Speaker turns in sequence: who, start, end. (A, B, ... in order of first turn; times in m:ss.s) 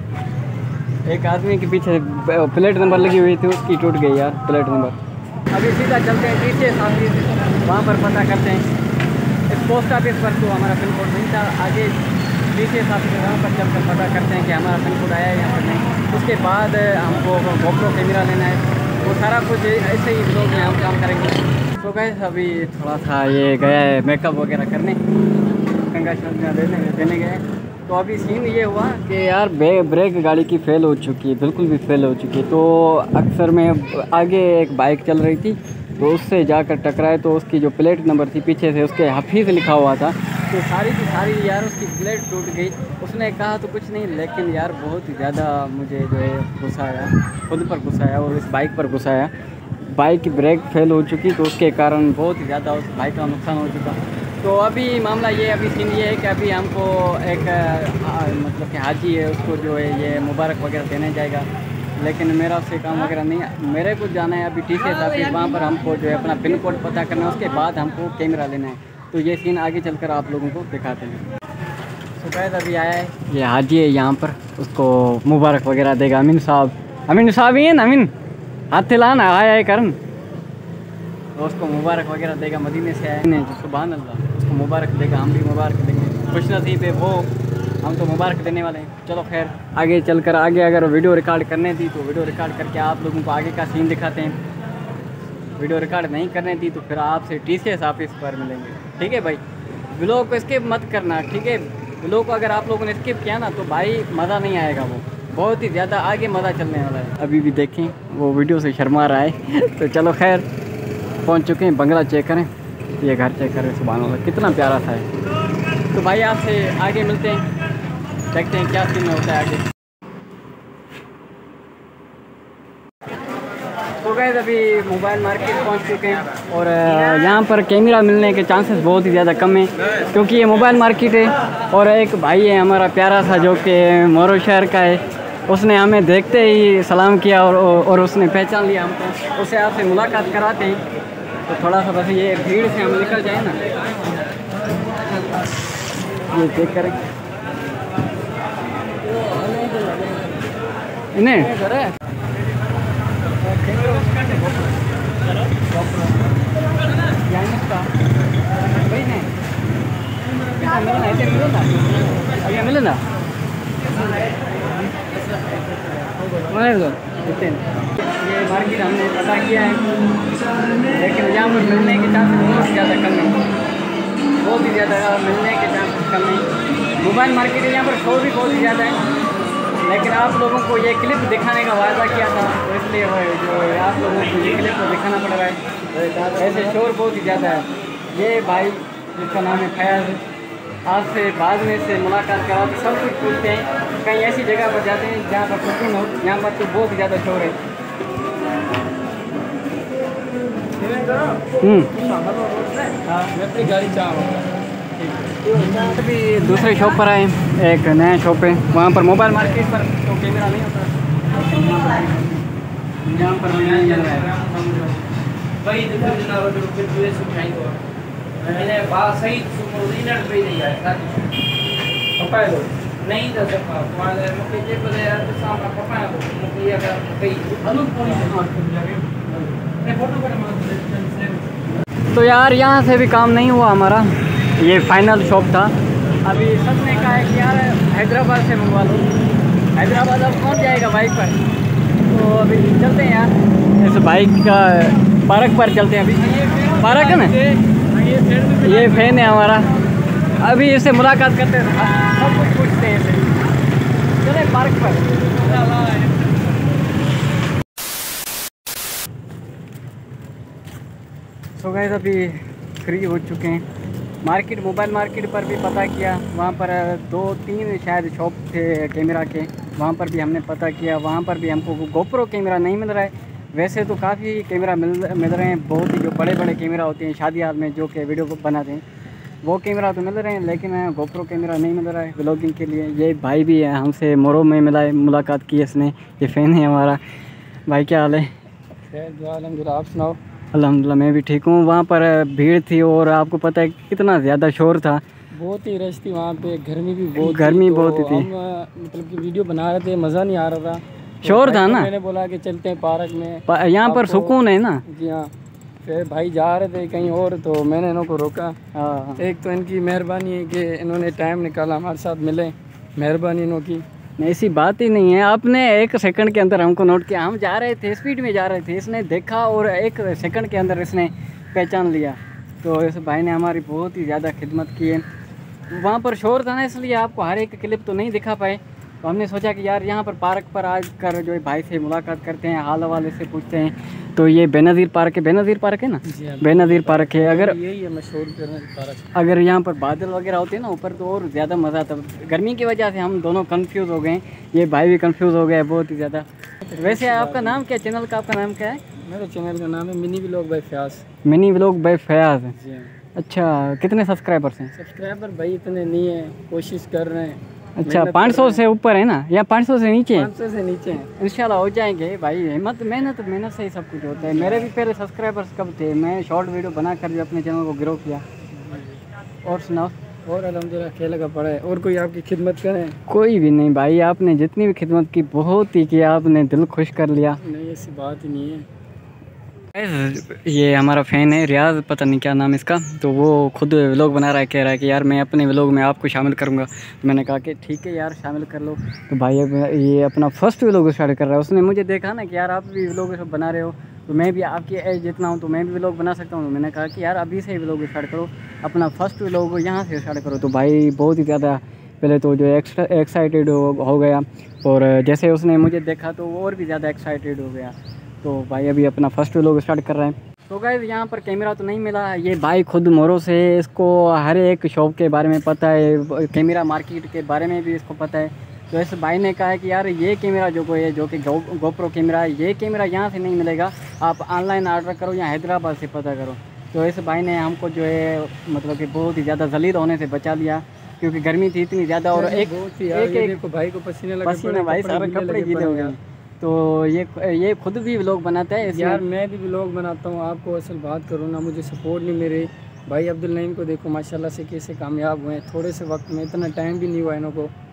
0:01.0-0:05.0 A
0:05.5-0:08.6 A
0:09.5-0:25.0 A
0:25.9-0:49.3 A
0:49.8-1:01.5 A
1:02.0-1:11.2 A
1:12.2-1:18.1 A
1:18.7-1:20.0 A
1:21.4-1:27.3 A
1:27.8-1:34.4 A
1:35.6-1:50.4 A
1:51.2-1:55.1 A
1:55.9-1:57.4 A
1:58.3-1:59.6 A
2:04.0-2:20.8 A
2:21.5-2:23.6 A
2:26.3-2:27.0 A
2:29.2-2:30.3 B
2:31.1-2:31.6 A
2:31.6-2:31.9 B
2:33.5-2:34.3 A
2:33.6-2:34.3 B
2:37.2-2:37.9 A
2:38.8-2:39.3 A
2:40.6-2:41.7 A
2:42.3-2:43.0 A
2:46.5-2:49.8 A
2:50.9-2:53.4 A
2:54.4-2:56.5 A
2:57.0-2:59.0 A
2:59.8-3:05.6 A
3:06.2-3:10.2 A
3:10.8-3:17.6 A
3:21.6-3:21.9 A
3:22.3-3:22.7 C
3:23.0-3:23.3 A
3:23.3-3:24.5 B
3:25.0-3:32.4 A
3:33.0-3:34.4 A
3:33.5-3:35.1 C
3:35.6-3:37.8 C
3:38.4-3:41.3 C
3:42.2-3:42.7 B
3:42.3-3:48.6 C
3:48.5-3:48.8 A
3:49.8-3:51.5 C
3:52.1-3:59.1 A
3:59.7-4:01.4 A
4:02.1-4:07.6 A
4:08.4-4:09.7 A
4:10.3-4:13.3 A
4:14.2-4:15.1 A
4:15.7-4:16.0 A
4:21.6-4:23.6 A
4:24.2-4:38.8 A
4:39.4-4:47.0 A
4:47.7-4:48.3 A
4:48.8-4:50.2 B
4:50.5-4:55.0 A
4:55.3-5:04.3 B
4:57.2-4:58.3 A
5:01.2-5:01.9 A
5:03.5-5:04.8 A
5:04.9-5:05.3 B
5:05.8-5:08.6 B
5:08.7-5:09.2 A
5:09.2-5:13.8 B
5:14.2-5:25.0 A
5:25.7-5:37.6 A
5:36.0-5:39.1 B
5:39.1-5:46.2 A
5:46.6-5:47.6 B
5:46.8-5:48.8 A
5:49.0-5:51.0 B
5:51.2-5:52.6 A
5:52.6-5:52.9 B
5:53.2-5:54.7 A
5:54.8-5:58.6 B
5:57.8-6:00.3 A
6:00.1-6:01.1 B
6:01.2-6:08.2 A
6:04.3-6:04.7 B
6:08.5-6:09.0 B
6:09.4-6:09.9 A
6:10.2-6:12.9 B
6:13.1-6:17.4 A
6:17.4-6:18.7 B
6:19.7-7:13.4 A
7:12.1-7:16.0 B
7:14.2-7:19.0 A
7:18.6-7:27.5 B